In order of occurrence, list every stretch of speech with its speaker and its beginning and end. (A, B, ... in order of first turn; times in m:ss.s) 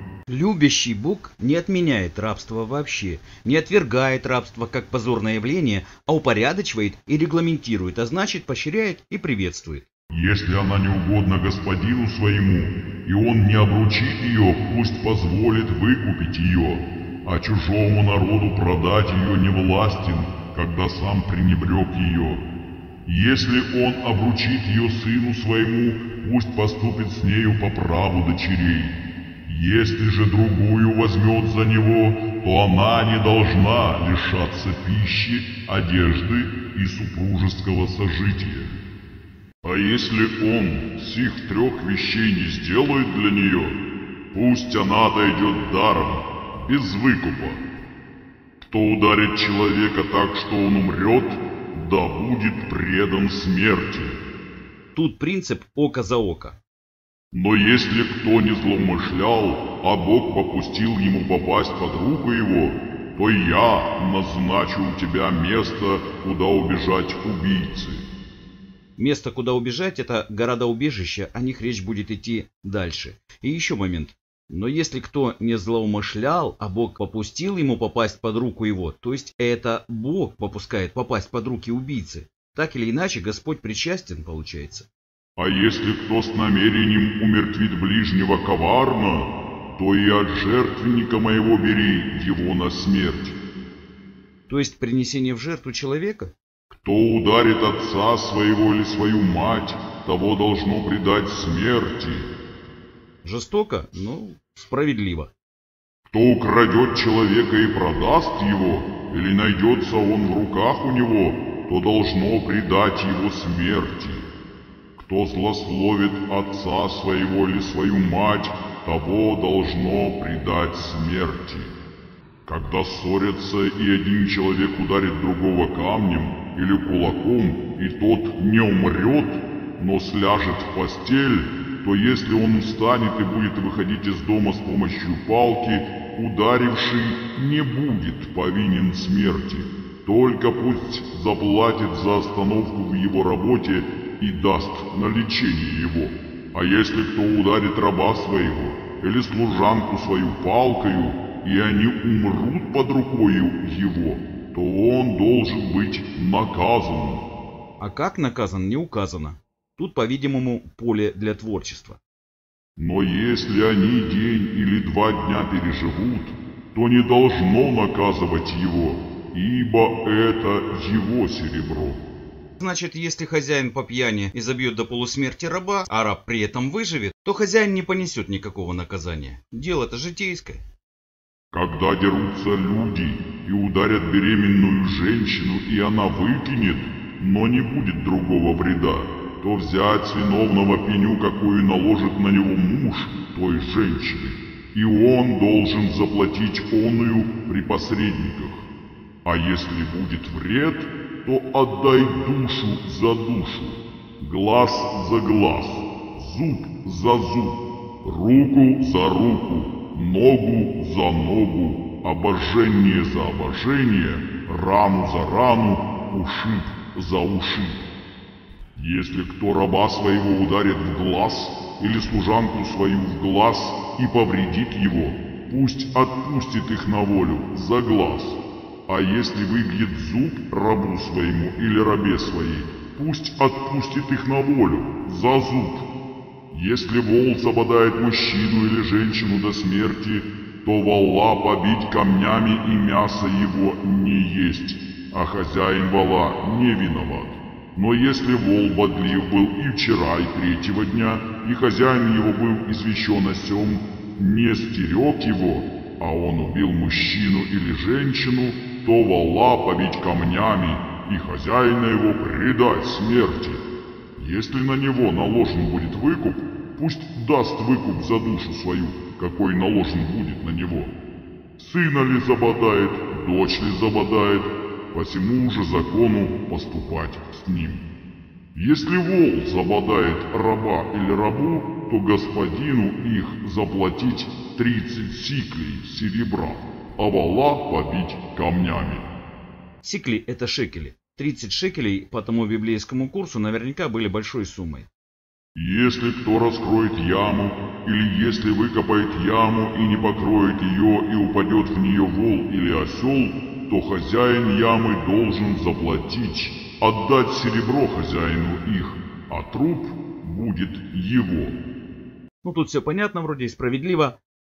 0:00.3-0:09.9 A
0:10.1-0:22.4 B
0:23.0-0:38.8 B
0:39.6-0:43.8 B
0:44.3-0:47.6 B
0:48.6-0:54.2 B
0:54.9-0:56.6 A
0:57.3-1:08.0 B
1:09.0-1:24.9 A
1:25.4-1:33.4 B
1:34.5-1:36.3 A
1:36.7-1:42.3 B
1:43.2-1:45.3 A
1:46.1-1:54.3 B
1:55.0-2:01.7 B
2:02.5-2:37.2 B
2:37.8-2:42.0 A
2:42.8-2:52.0 B
2:52.6-3:00.6 A
3:01.5-3:18.7 B
3:19.2-3:37.9 B
3:38.8-3:55.9 B
3:56.5-4:23.6 B
4:24.2-4:30.9 B
4:31.6-4:37.8 B
4:38.5-4:49.1 B
4:49.8-4:54.9 A
4:55.6-5:11.6 B
5:12.4-5:14.2 A